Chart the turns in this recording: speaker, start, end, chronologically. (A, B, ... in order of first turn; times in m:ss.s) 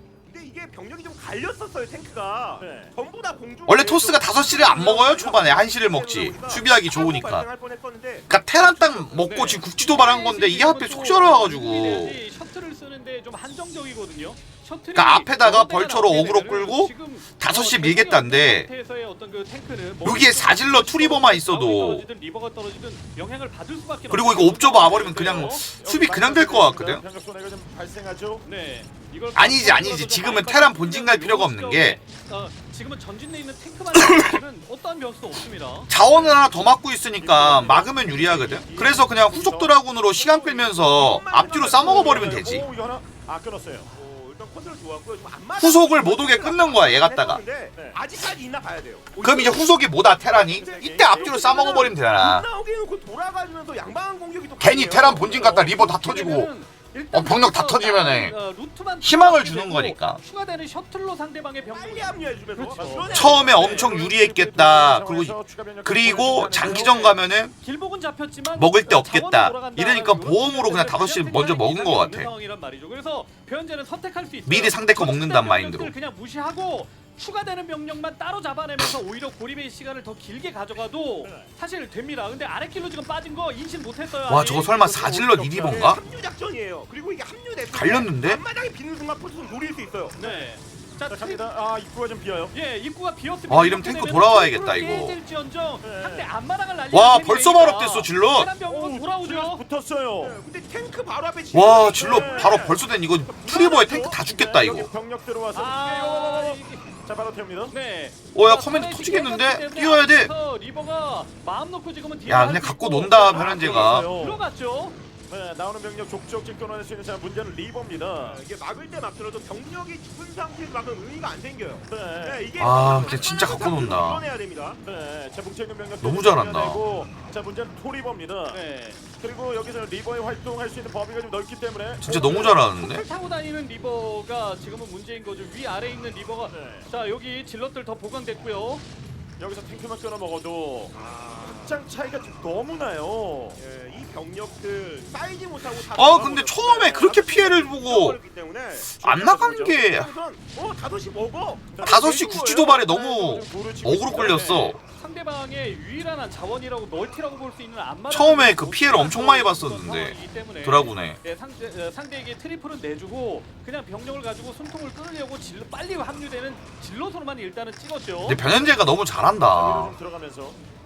0:00.2-0:09.4 A
0:02.6-0:02.9 B
0:03.7-0:07.5 C
0:08.3-0:12.2 C
0:09.2-0:25.7 D
0:15.0-0:18.7 C
0:20.0-0:22.1 C
0:24.1-0:27.0 C
0:25.0-0:28.5 B
0:28.4-0:35.9 D
0:29.4-0:32.0 C
0:35.9-0:42.6 C
0:37.2-0:39.8 B
0:40.4-0:42.5 A
0:41.8-0:43.9 B
0:43.8-0:55.6 A
0:45.6-0:47.4 C
0:49.2-0:52.5 C
0:50.6-0:51.2 B
0:54.6-0:56.5 C
0:55.3-1:03.7 D
0:57.1-0:58.4 C
0:59.0-1:00.2 C
1:01.6-1:04.2 A
1:03.1-1:07.6 C
1:03.6-1:07.2 B
1:06.6-1:07.0 D
1:07.6-1:25.9 D
1:08.5-1:12.3 C
1:14.5-1:15.9 C
1:24.3-1:26.0 C
1:25.6-1:30.2 A
1:27.7-1:28.4 C
1:30.2-1:31.4 D
1:31.1-1:32.5 B
1:32.5-1:39.6 D
1:33.5-1:35.2 C
1:35.8-1:36.3 B
1:36.9-1:38.5 C
1:38.7-1:40.4 B
1:40.2-1:44.2 A
1:41.5-1:44.9 C
1:42.0-1:42.8 B
1:44.2-1:47.8 B
1:45.5-1:46.9 D
1:47.7-1:55.0 D
1:48.3-1:50.3 C
1:52.3-1:54.1 C
1:53.1-1:54.4 B
1:55.3-1:58.4 B
1:58.2-2:04.8 A
2:01.9-2:03.9 B
2:02.6-2:04.2 C
2:04.8-2:08.6 B
2:06.0-2:06.8 C
2:08.5-2:09.0 D
2:09.1-2:12.6 B
2:12.0-2:13.1 C
2:12.4-2:18.8 D
2:16.5-2:16.9 B
2:19.4-2:23.6 B
2:20.9-2:22.0 A
2:23.6-2:29.0 A
2:25.9-2:28.2 C
2:29.0-2:30.1 C
2:29.0-2:29.8 B
2:29.8-2:32.6 A
2:31.7-2:34.5 B
2:31.8-2:34.8 C
2:34.1-2:48.4 D
2:38.1-2:41.2 C
2:48.2-2:50.0 C
2:49.5-2:50.6 B